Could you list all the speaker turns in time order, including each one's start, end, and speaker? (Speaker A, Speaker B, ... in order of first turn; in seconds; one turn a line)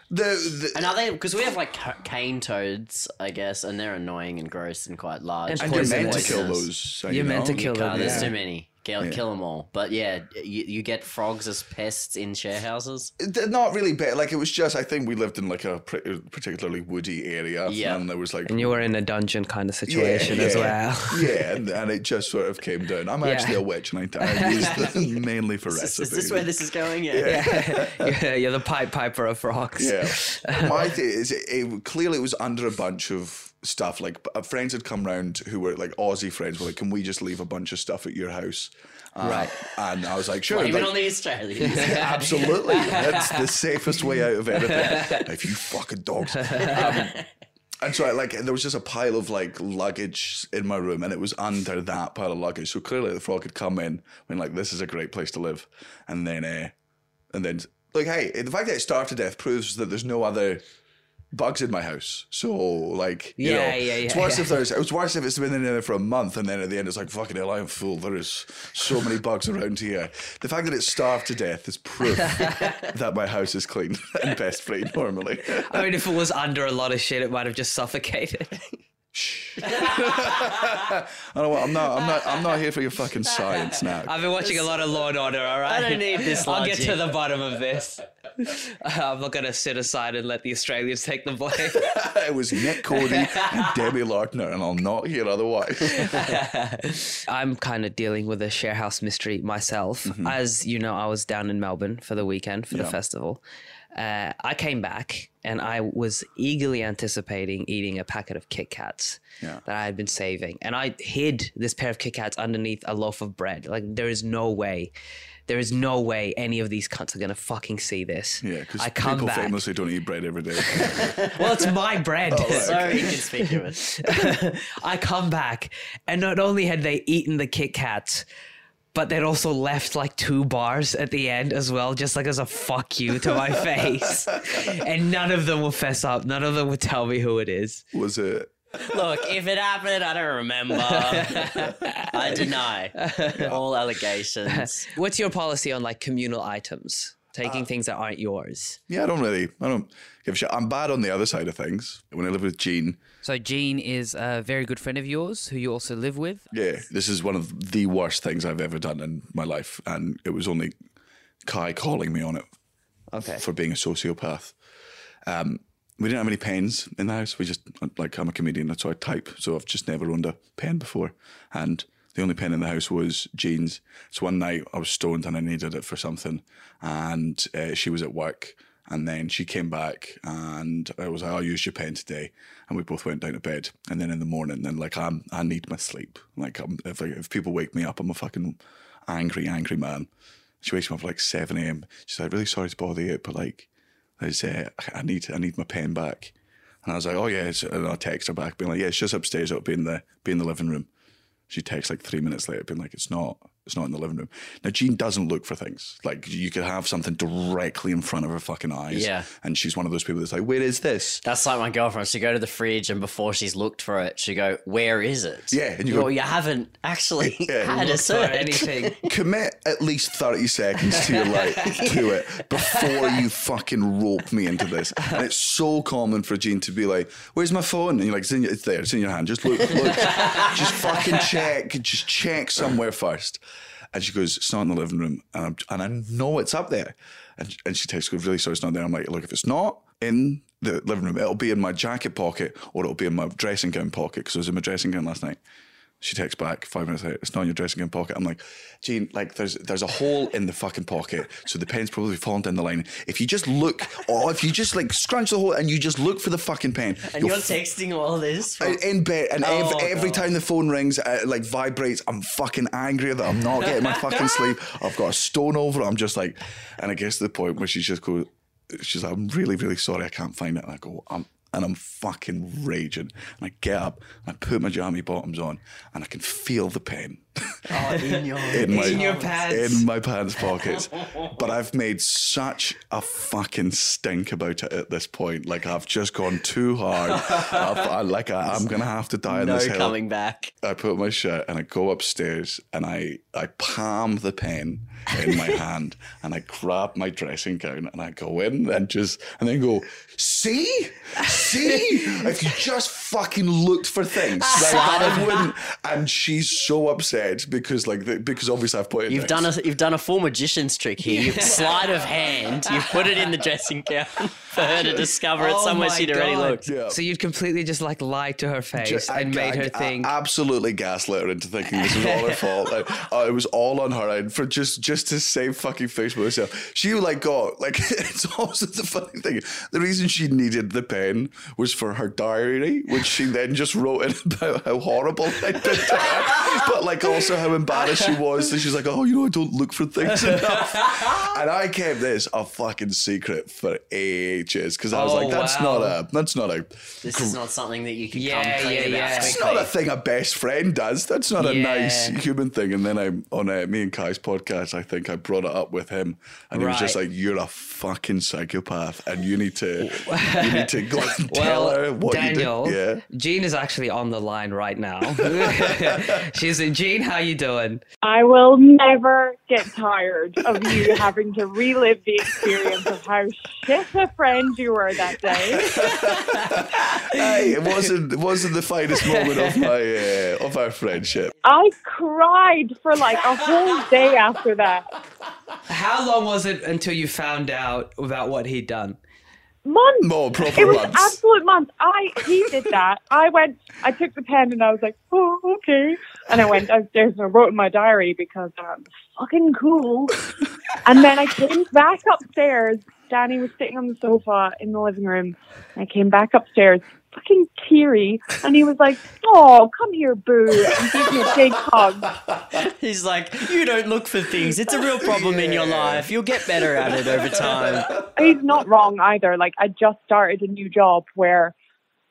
Speaker A: 0.1-0.9
Speaker B: 0.7-6.7
Speaker C: 5.5-6.5
Speaker A: 5.6-8.3
Speaker C: 7.1-8.3
Speaker B: 7.5-13.1
Speaker A: 13.2-18.9
Speaker B: 17.7-18.0
Speaker C: 18.5-21.4
Speaker A: 19.9-26.5
Speaker B: 20.0-20.7
Speaker C: 23.2-23.6
Speaker C: 24.2-25.0
Speaker B: 25.7-27.4
Speaker A: 27.1-28.1
Speaker C: 27.2-30.8
Speaker A: 29.8-41.0
Speaker C: 39.2-39.6
Speaker B: 40.5-42.2
Speaker A: 41.6-47.2
Speaker C: 41.7-43.5
Speaker C: 44.5-45.3
Speaker C: 46.4-47.0
Speaker A: 47.8-56.7
Speaker A: 57.3-60.6
Speaker A: 61.3-75.9
Speaker C: 63.4-64.5
Speaker C: 72.2-72.7
Speaker C: 75.7-78.5
Speaker A: 79.1-84.2
Speaker C: 84.0-91.9
Speaker B: 84.4-84.8
Speaker B: 85.6-87.1
Speaker A: 91.7-96.3
Speaker C: 92.9-93.7
Speaker C: 95.9-103.4
Speaker A: 100.0-100.4
Speaker A: 102.7-103.0
Speaker C: 103.9-114.9
Speaker C: 115.5-119.6
Speaker A: 118.4-121.5
Speaker C: 120.8-123.2
Speaker A: 122.3-123.2
Speaker B: 122.4-123.8
Speaker C: 123.8-128.2
Speaker C: 128.9-137.8
Speaker A: 137.9-139.3
Speaker B: 138.9-144.9
Speaker C: 140.9-143.5
Speaker C: 144.6-148.8
Speaker A: 147.4-147.7
Speaker A: 148.9-153.0
Speaker D: 153.2-156.5
Speaker A: 156.5-160.7
Speaker A: 161.4-162.4
Speaker C: 163.1-163.4
Speaker A: 163.4-164.5
Speaker A: 165.3-190.1
Speaker A: 190.6-193.7
Speaker A: 194.2-200.9
Speaker A: 201.5-211.2
Speaker B: 208.9-209.3
Speaker B: 211.2-219.1
Speaker A: 215.5-216.1
Speaker A: 217.2-218.0
Speaker C: 217.7-219.0
Speaker A: 219.0-233.4
Speaker C: 221.1-221.9
Speaker B: 221.6-221.9
Speaker C: 230.1-230.5
Speaker A: 233.9-245.4
Speaker A: 246.0-257.6
Speaker B: 257.1-258.8
Speaker A: 258.6-277.7
Speaker B: 259.4-260.3
Speaker B: 277.7-279.4
Speaker C: 277.9-279.9
Speaker A: 278.5-289.9
Speaker B: 281.0-281.3
Speaker B: 287.2-287.9
Speaker B: 289.3-290.5
Speaker A: 290.6-309.5
Speaker C: 304.5-305.3
Speaker B: 304.6-305.3
Speaker B: 309.1-316.7
Speaker C: 311.2-311.7
Speaker C: 315.4-320.1
Speaker D: 315.9-316.2
Speaker A: 316.6-317.0
Speaker A: 318.7-347.4
Speaker C: 321.8-322.4
Speaker C: 340.3-341.1
Speaker C: 344.9-345.9
Speaker B: 347.0-349.7
Speaker C: 348.1-349.4
Speaker A: 349.1-363.0
Speaker C: 351.4-352.1
Speaker C: 356.5-357.0
Speaker C: 359.8-367.8
Speaker A: 365.1-366.2
Speaker E: 368.0-375.7
Speaker A: 375.4-381.3
Speaker C: 375.7-377.9
Speaker C: 378.9-379.7
Speaker E: 381.4-384.9
Speaker C: 385.7-389.0
Speaker E: 389.6-400.2
Speaker A: 390.0-391.2
Speaker E: 400.8-412.1
Speaker A: 410.6-411.3
Speaker A: 412.1-412.4
Speaker B: 412.5-418.0
Speaker A: 414.9-418.3
Speaker E: 418.1-421.5